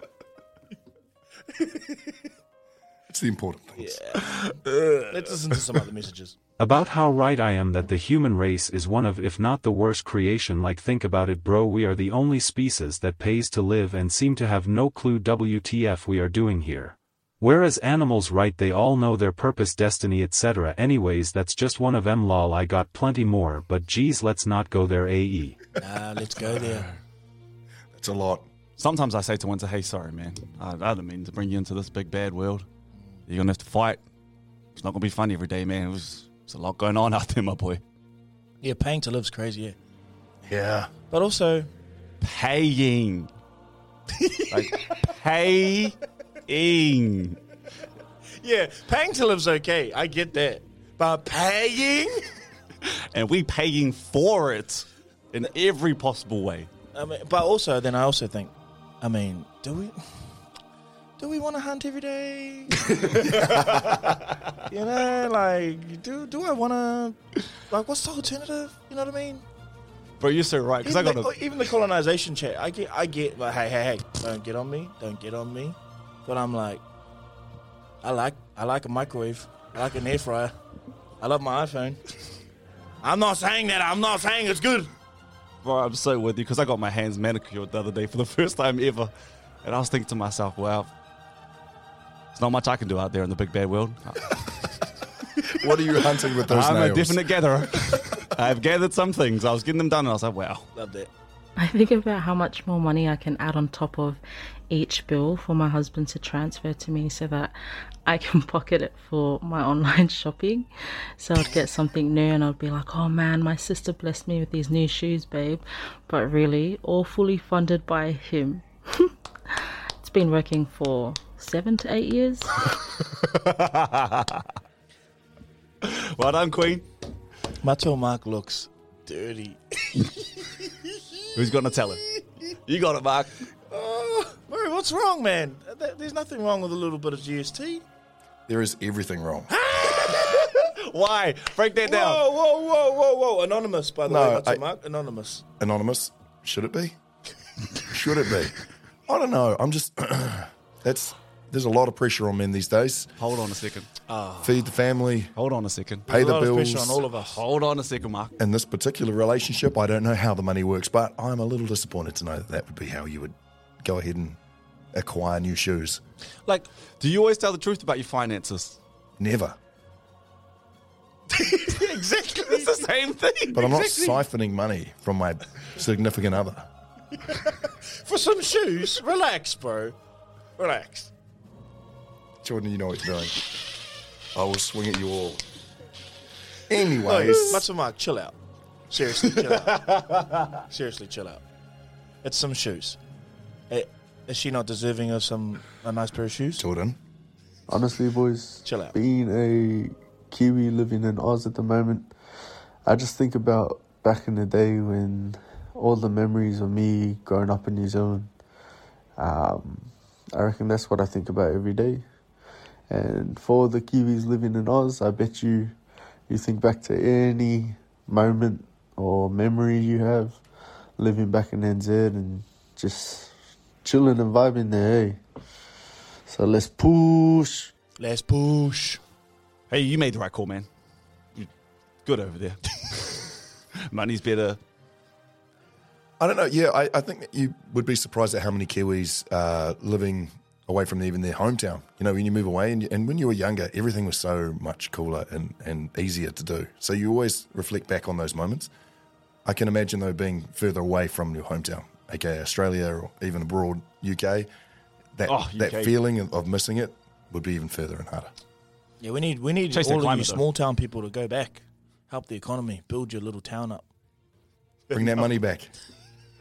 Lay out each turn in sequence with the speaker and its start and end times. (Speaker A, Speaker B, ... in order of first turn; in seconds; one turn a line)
Speaker A: 3.1-4.0
Speaker B: 3.8-4.5
Speaker B: 5.1-6.4
Speaker C: 6.6-25.6
Speaker B: 25.8-26.9
Speaker A: 27.9-28.5
Speaker D: 28.8-32.6
Speaker D: 33.3-34.0
Speaker D: 34.8-37.8
Speaker B: 38.6-39.8
Speaker A: 40.5-40.9
Speaker B: 41.1-41.7
Speaker D: 42.2-43.3
Speaker B: 44.1-44.9
Speaker D: 44.5-47.4
Speaker B: 48.4-52.3
Speaker D: 52.8-56.7
Speaker B: 56.9-60.0
Speaker B: 61.2-64.0
Speaker D: 63.0-64.2
Speaker B: 64.7-69.4
Speaker D: 70.2-71.3
Speaker B: 70.8-76.8
Speaker B: 78.0-80.5
Speaker B: 81.2-82.0
Speaker B: 83.0-84.9
Speaker D: 85.6-89.1
Speaker D: 89.6-90.9
Speaker D: 92.3-94.8
Speaker A: 95.5-97.3
Speaker D: 96.4-100.7
Speaker B: 100.8-101.1
Speaker E: 101.6-107.5
Speaker E: 108.1-119.1
Speaker E: 120.0-122.5
Speaker D: 122.7-124.5
Speaker D: 125.8-126.9
Speaker B: 127.6-130.2
Speaker D: 131.3-133.4
Speaker B: 133.7-137.8
Speaker A: 138.5-139.5
Speaker B: 139.7-140.5
Speaker D: 139.7-142.2
Speaker B: 141.8-145.4
Speaker A: 144.1-144.6
Speaker A: 145.6-147.0
Speaker A: 147.9-148.6
Speaker A: 149.1-153.1
Speaker D: 153.2-153.9
Speaker B: 154.1-154.6
Speaker A: 154.4-155.3
Speaker D: 155.4-156.1
Speaker A: 156.1-157.0
Speaker B: 156.1-157.4
Speaker D: 157.1-158.3
Speaker A: 158.4-164.4
Speaker A: 164.9-166.0
Speaker D: 167.0-168.8
Speaker A: 169.2-169.6
Speaker B: 171.4-172.9
Speaker D: 171.6-173.7
Speaker A: 173.5-176.7
Speaker B: 173.6-174.2
Speaker B: 177.3-180.0
Speaker B: 180.6-181.1
Speaker A: 182.4-183.4
Speaker A: 184.3-185.4
Speaker A: 186.7-187.6
Speaker B: 187.0-188.4
Speaker B: 188.9-191.4
Speaker B: 192.2-193.0
Speaker B: 193.7-196.6
Speaker A: 196.6-197.0
Speaker F: 197.7-202.1
Speaker B: 198.6-199.0
Speaker F: 202.8-208.3
Speaker F: 209.2-212.1
Speaker F: 212.9-215.8
Speaker F: 216.3-220.4
Speaker F: 221.0-223.3
Speaker F: 223.8-225.2
Speaker F: 226.3-227.7
Speaker B: 228.0-229.0
Speaker D: 229.7-230.7
Speaker D: 232.1-233.3
Speaker D: 233.9-234.6
Speaker A: 236.2-248.7
Speaker A: 249.4-254.5
Speaker A: 255.2-258.3
Speaker D: 255.3-255.9
Speaker B: 259.0-263.9
Speaker D: 259.7-260.4
Speaker B: 264.9-265.3
Speaker A: 264.9-265.7